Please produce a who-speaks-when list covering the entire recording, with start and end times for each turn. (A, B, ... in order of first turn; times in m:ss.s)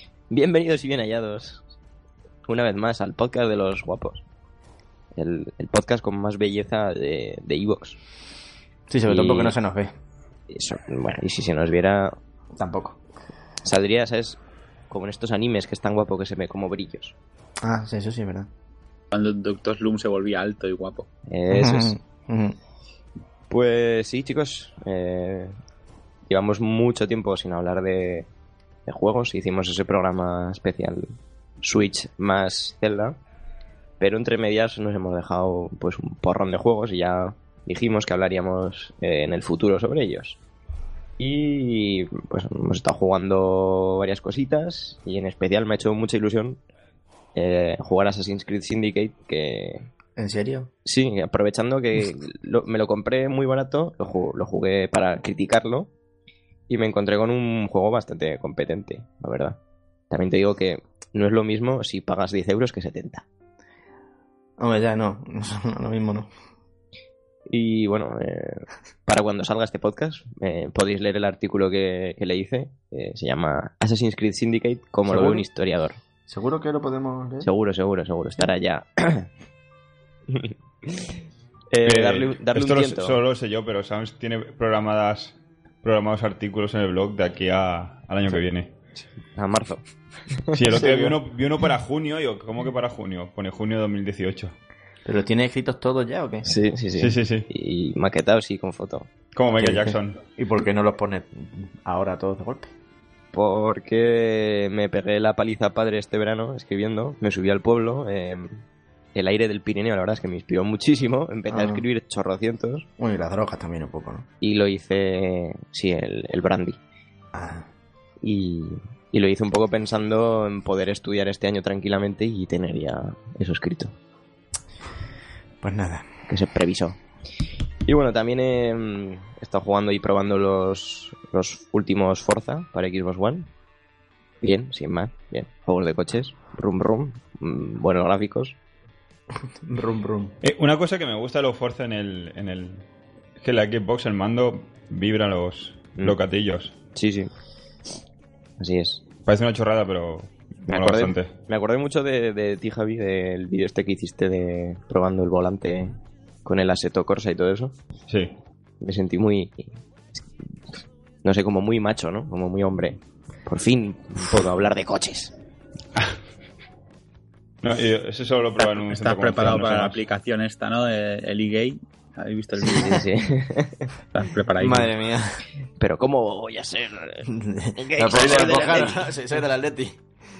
0:00.3-0:01.6 A
0:02.5-0:04.2 A
0:05.2-0:08.0 A
0:08.9-0:09.9 B
0:09.1-0:09.6 A
0:10.5-0:12.1 A
0:12.6-0:13.0 B
0:13.6-0:17.2 A
0:17.6-0:18.5 B
0:19.1-0:21.0 C
0:21.3-0:22.0 A
0:21.5-0:22.6 B
0:23.5-0:25.5 A
0:26.3-0:28.3 A
0:28.8-0:31.1 A
0:31.6-0:33.1 A
0:34.0-0:40.4 A
0:41.2-0:46.6 A
0:47.3-0:49.9 A
0:50.2-0:50.7 B
0:50.8-0:55.9 A
0:56.7-0:59.6 A
1:00.1-1:03.2 A
1:04.6-1:06.3 B
1:07.5-1:16.0 A
1:15.0-1:15.4 B
1:16.2-1:17.5 B
1:17.4-1:19.3 A
1:20.3-1:21.2 A
1:21.7-1:23.2 A
1:21.8-1:28.7 D
1:29.0-1:29.8 A
1:30.5-1:34.6 D
1:30.5-1:31.2 A
1:35.0-1:36.5 B
1:36.4-1:39.1 A
1:36.9-1:37.5 D
1:39.3-1:40.2 D
1:39.5-1:42.7 B
1:43.3-1:48.6 A
1:49.1-1:52.9 A
1:51.5-1:51.8 B
1:53.0-1:54.3 B
1:54.4-1:56.8 A
1:57.3-1:57.7 B
1:58.2-2:03.9 A
2:05.6-2:06.1 B
2:06.3-2:07.0 A
2:07.8-2:13.5 A
2:14.4-2:18.6 A
2:19.6-2:20.4 B
2:20.4-2:22.9 D
2:23.4-2:26.8 D
2:26.9-2:27.3 A
2:28.6-2:29.0 A
2:29.2-2:31.3 D
2:30.7-2:37.8 A
2:38.1-2:38.3 D
2:38.8-2:40.2 A
2:41.2-2:45.3 A
2:47.6-2:50.0 D
2:48.8-2:53.0 C
2:52.6-2:53.8 A
2:54.1-2:54.9 C
2:54.6-2:55.4 B
2:55.8-2:59.1 A
2:57.3-3:00.0 B
2:58.2-2:58.6 C